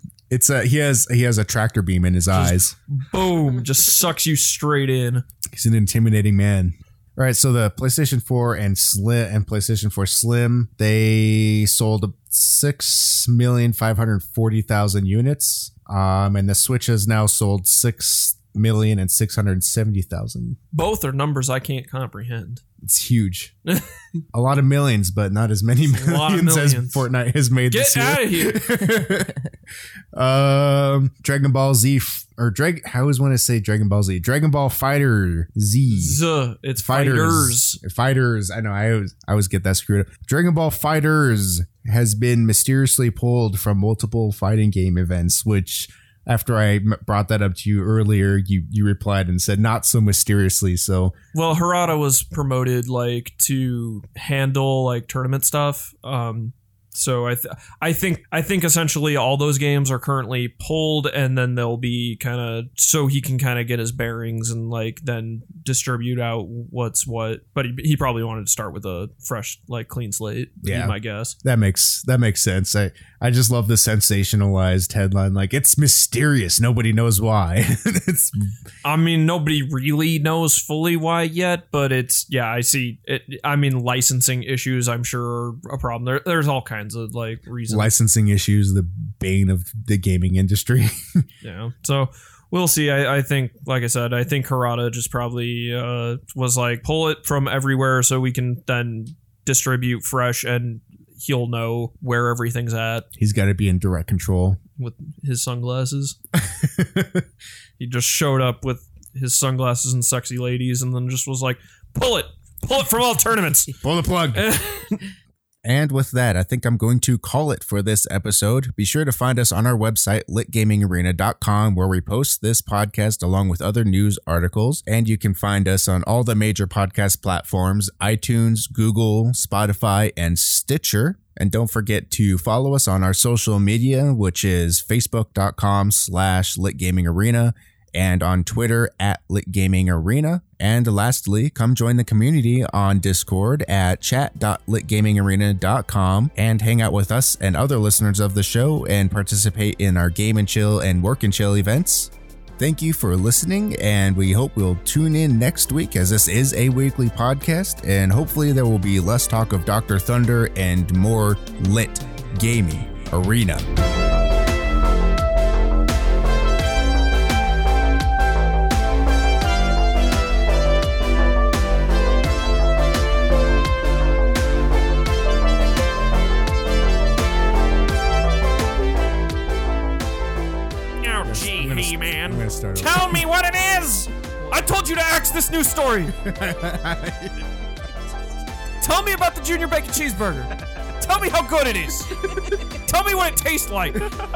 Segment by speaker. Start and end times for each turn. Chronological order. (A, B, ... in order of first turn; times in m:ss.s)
0:00.3-0:02.7 A
0:02.3-0:05.2 B
0:05.5-0:20.6 A
0:20.7-0:22.6 B
0:22.8-0:23.5 A
0:24.3-0:29.4 A
0:25.9-0:27.0 B
0:27.7-0:28.6 B
0:30.1-0:36.2 A
0:35.9-0:37.8 B
0:36.8-0:51.1 A
0:51.3-1:11.4 B
1:10.6-1:18.5 A
1:18.8-1:27.9 B
1:27.7-1:31.2 A
1:31.4-1:43.1 B
1:43.2-1:44.6 A
1:44.8-1:46.2 B
1:46.3-1:47.2 A
1:47.8-1:53.7 B
1:53.8-1:54.6 A
1:54.3-1:55.1 B
1:55.6-2:43.7 A
3:01.0-3:06.2 B
3:01.2-3:03.2 A
3:06.2-3:07.4 A
3:08.8-3:14.1 B